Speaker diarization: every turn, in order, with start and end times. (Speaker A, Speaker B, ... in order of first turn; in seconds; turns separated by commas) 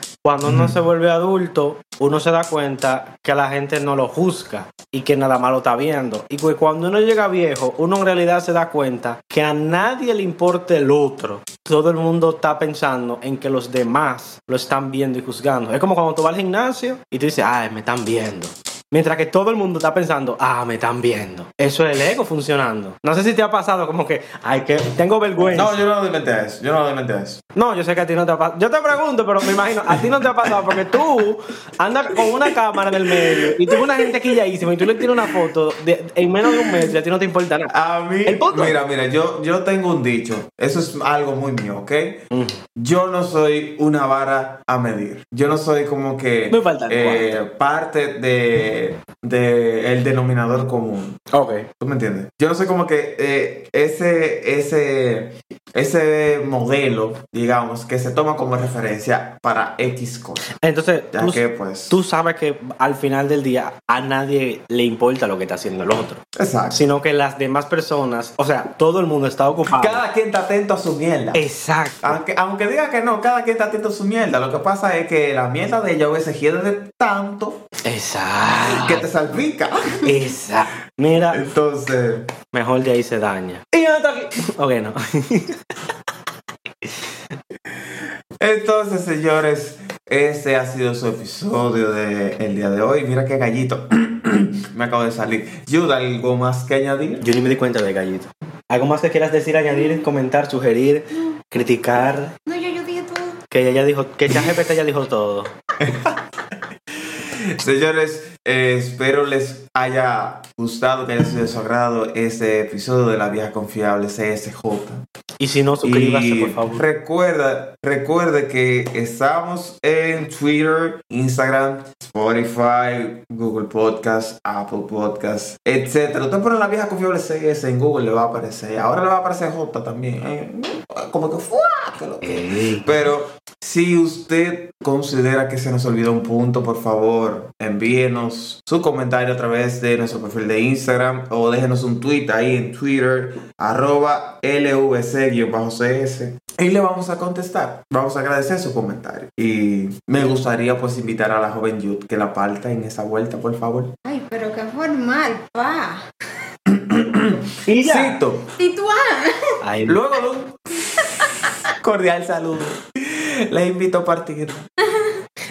Speaker A: 0.2-25.8, Speaker B: 0.4-0.8, Speaker B: 25.4-27.4, Speaker A: 27.5-37.7, Speaker B: 33.0-33.8, Speaker B: 37.7-51.2, Speaker A: 38.2-38.8, Speaker A: 42.3-42.6, Speaker A: 46.5-47.2, Speaker A: 51.3-51.7, Speaker B: 51.8-60.5, Speaker A: 60.6-70.0, Speaker B: 61.1-62.0, Speaker B: 66.3-66.8, Speaker B: 69.7-71.5, Speaker A: 71.3-72.2, Speaker B: 72.0-77.6, Speaker A: 77.8-79.0, Speaker B: 78.6-80.1, Speaker A: 80.0-81.4, Speaker B: 81.3-82.3, Speaker A: 82.5-85.6, Speaker B: 88.4-97.3, Speaker A: 97.2-102.3, Speaker C: 102.5-103.4, Speaker A: 103.5-105.5, Speaker B: 104.3-104.5, Speaker B: 105.8-106.2, Speaker B: 107.0-115.0, Speaker A: 115.4-116.8, Speaker B: 115.8-153.9, Speaker A: 132.2-132.9, Speaker C: 154.0-156.1, Speaker B: 156.7-158.5, Speaker A: 157.6-158.2, Speaker C: 158.6-159.6, Speaker A: 159.6-160.0, Speaker B: 159.8-160.8, Speaker B: 161.8-164.7, Speaker C: 164.9-165.2